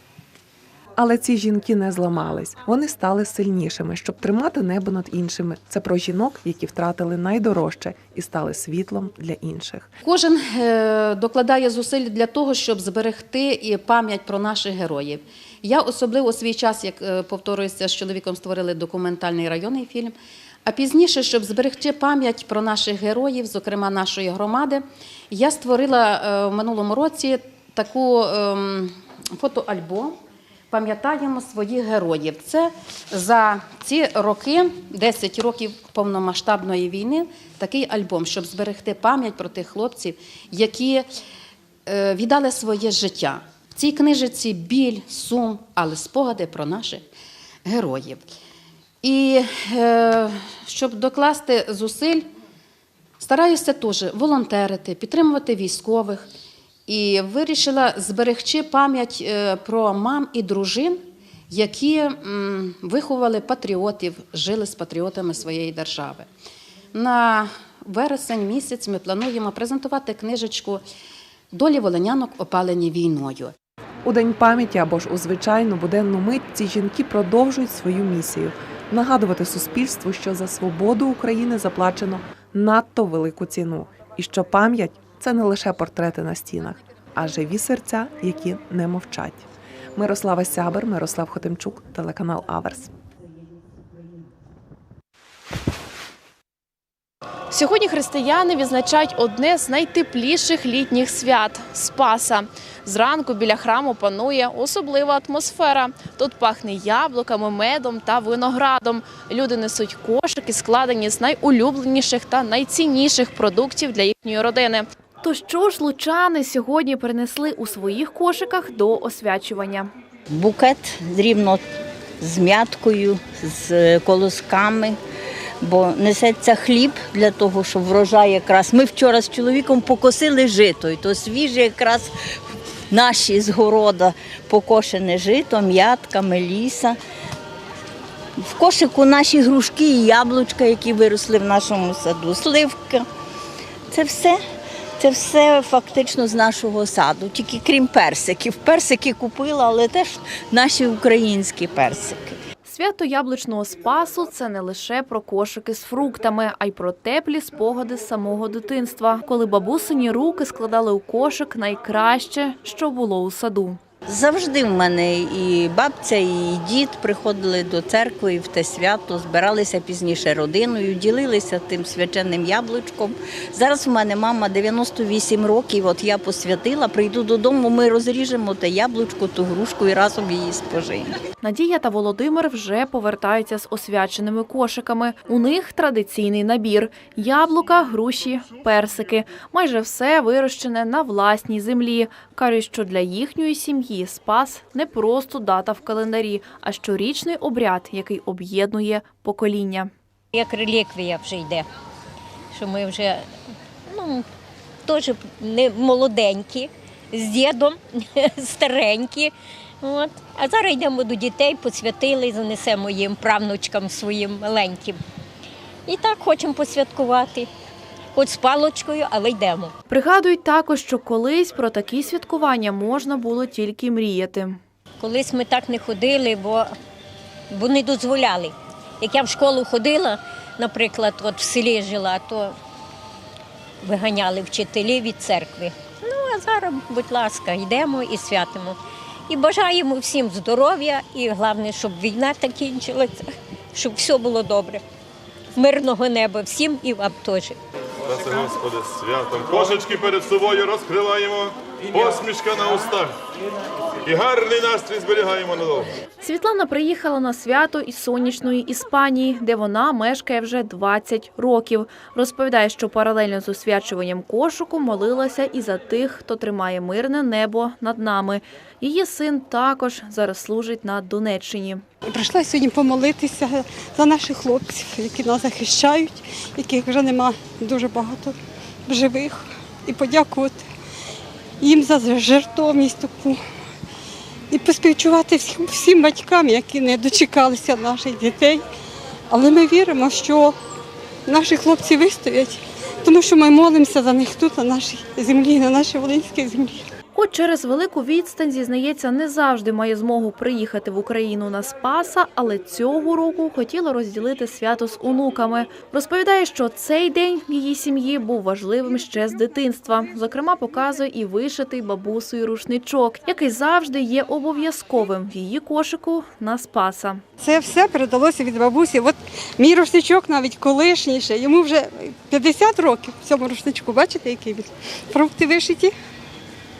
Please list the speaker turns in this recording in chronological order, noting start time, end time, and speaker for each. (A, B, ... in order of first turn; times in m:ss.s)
0:01.0-0:09.9 A
0:10.0-0:20.1 B
0:20.6-0:30.2 B
0:30.7-0:41.0 B
0:41.8-0:47.0 B
0:47.6-0:48.3 B
0:49.0-0:52.3 B
0:53.2-0:56.3 B
0:56.9-1:06.3 B
1:06.9-1:10.8 B
1:11.5-1:13.5 B
1:14.0-1:32.9 A
1:37.5-1:59.9 C
2:00.3-2:01.6 D
2:02.2-2:05.0 D
2:05.6-2:12.1 D
2:12.9-2:17.0 D
2:18.4-2:23.1 D
2:23.9-2:24.4 D
2:25.0-2:32.4 D
2:32.6-2:43.8 C
2:44.0-3:01.1 D
3:01.4-3:19.9 C
3:20.3-3:21.6 E
3:22.5-3:23.3 E
3:23.9-3:24.2 E
3:24.8-3:35.0 E
3:35.8-3:37.5 E
3:38.1-3:39.7 E
3:39.9-3:44.6 C
3:45.0-3:46.7 E
3:47.5-3:52.5 E
3:53.8-3:58.8 E
3:59.3-4:04.8 E
4:05.6-4:07.6 E
4:08.1-4:11.4 F
4:11.9-4:13.0 F
4:14.1-4:15.8 F
4:16.2-4:31.8 C
4:32.0-4:38.3 G
4:38.8-4:40.6 G
4:41.6-4:43.4 G
4:44.5-4:48.6 G
4:49.3-4:50.6 G
4:51.2-4:56.8 G
4:57.1-5:17.2 C
5:17.4-5:25.9 G